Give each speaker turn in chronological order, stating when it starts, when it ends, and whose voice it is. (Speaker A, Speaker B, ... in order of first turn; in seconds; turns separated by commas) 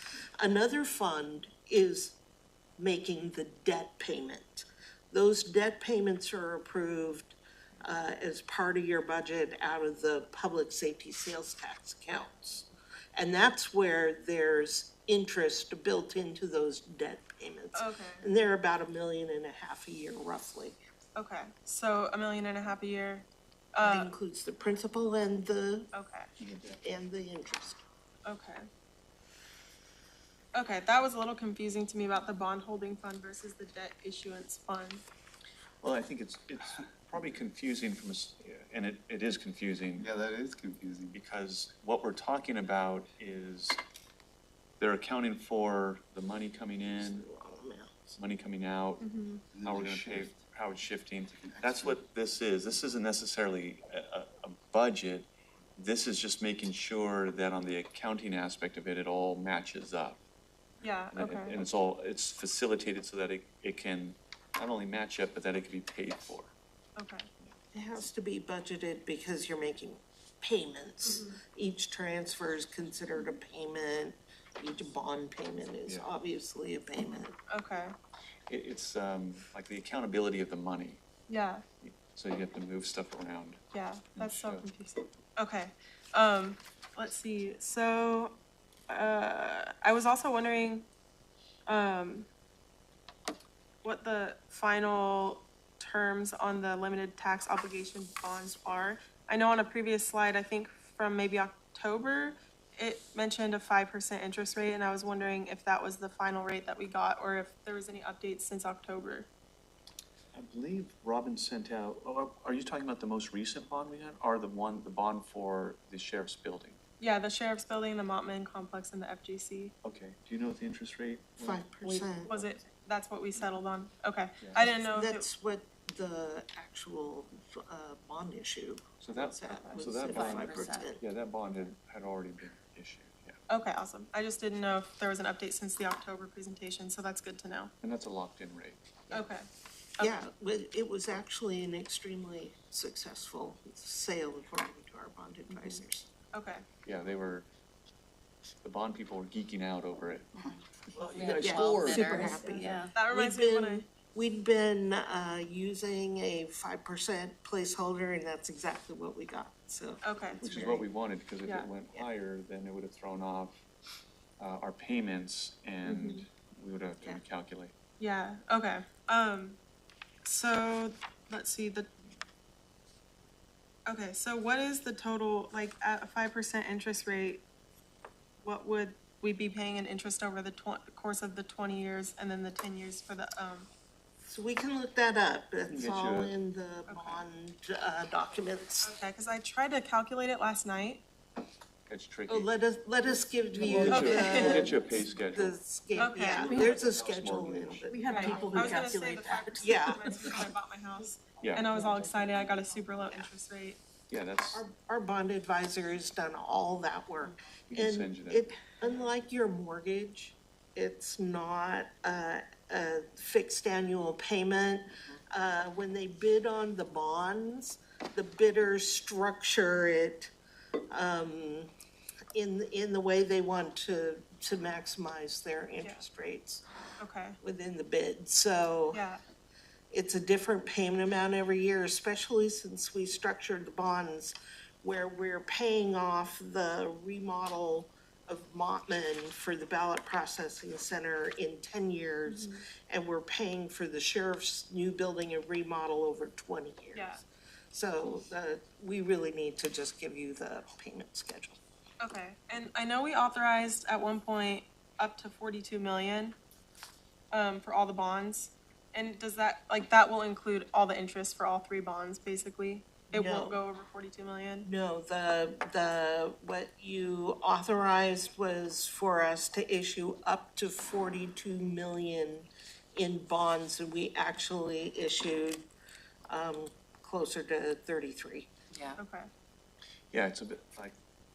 Speaker A: 0.4-2.2, Speaker A: 2.8-20.8, Speaker B: 17.7-18.2, Speaker B: 21.1-24.1, Speaker A: 23.8-25.9, Speaker B: 25.9-26.3, Speaker C: 26.4-26.8, Speaker A: 26.7-27.8, Speaker B: 28.2-28.6, Speaker B: 30.5-35.0, Speaker C: 35.8-40.1, Speaker D: 40.0-41.2, Speaker C: 41.1-43.8, Speaker C: 44.8-47.2, Speaker A: 46.9-48.2, Speaker C: 48.1-49.1, Speaker B: 49.0-49.4, Speaker D: 49.5-50.4, Speaker C: 49.6-60.2, Speaker D: 51.3-52.0, Speaker B: 60.8-61.5, Speaker C: 61.1-66.5, Speaker B: 67.0-67.3, Speaker A: 67.7-77.4, Speaker B: 71.0-71.4, Speaker B: 77.5-77.9, Speaker C: 78.5-81.0, Speaker B: 81.3-81.6, Speaker C: 81.8-83.6, Speaker B: 83.7-88.4, Speaker C: 84.1-84.7, Speaker B: 88.9-90.8, Speaker B: 91.7-92.3, Speaker B: 93.8-109.3, Speaker C: 110.3-116.8, Speaker B: 117.0-119.7, Speaker C: 119.8-122.5, Speaker A: 121.4-122.4, Speaker B: 122.3-125.3, Speaker A: 124.5-131.0, Speaker C: 129.0-133.4, Speaker E: 130.0-130.9, Speaker B: 133.5-137.7, Speaker C: 137.8-138.9, Speaker B: 139.1-139.5, Speaker A: 140.0-146.1, Speaker B: 146.3-146.6, Speaker C: 146.8-147.5, Speaker C: 148.6-152.0, Speaker E: 150.4-152.9, Speaker A: 151.3-160.9, Speaker B: 151.9-153.9, Speaker B: 160.0-160.4, Speaker C: 160.4-163.6, Speaker C: 164.4-167.7, Speaker B: 165.8-166.2, Speaker B: 168.0-169.6, Speaker B: 170.2-171.9, Speaker B: 173.9-177.4, Speaker B: 178.4-183.7, Speaker A: 184.2-188.9, Speaker C: 185.7-186.3, Speaker B: 186.9-187.2, Speaker B: 188.8-191.0, Speaker C: 191.9-192.5, Speaker A: 192.3-200.3, Speaker E: 193.6-194.8, Speaker C: 193.7-195.6, Speaker B: 193.8-194.7, Speaker B: 196.0-196.5, Speaker C: 196.3-197.9, Speaker E: 196.3-196.9, Speaker E: 197.8-200.3, Speaker B: 198.1-203.8, Speaker C: 201.4-201.7, Speaker E: 201.6-202.9, Speaker C: 204.1-204.6, Speaker A: 204.5-220.3, Speaker C: 207.7-208.5, Speaker A: 220.9-221.7, Speaker A: 222.3-226.6, Speaker B: 227.0-227.4, Speaker A: 227.4-229.0, Speaker B: 228.9-229.2, Speaker A: 229.9-247.2, Speaker B: 242.2-242.6, Speaker B: 246.9-247.2, Speaker A: 247.7-251.6, Speaker B: 252.0-256.4, Speaker B: 257.3-264.7, Speaker A: 263.1-263.6, Speaker A: 264.6-275.6, Speaker A: 276.3-278.5, Speaker E: 278.7-279.0, Speaker B: 279.0-279.3, Speaker C: 280.1-280.9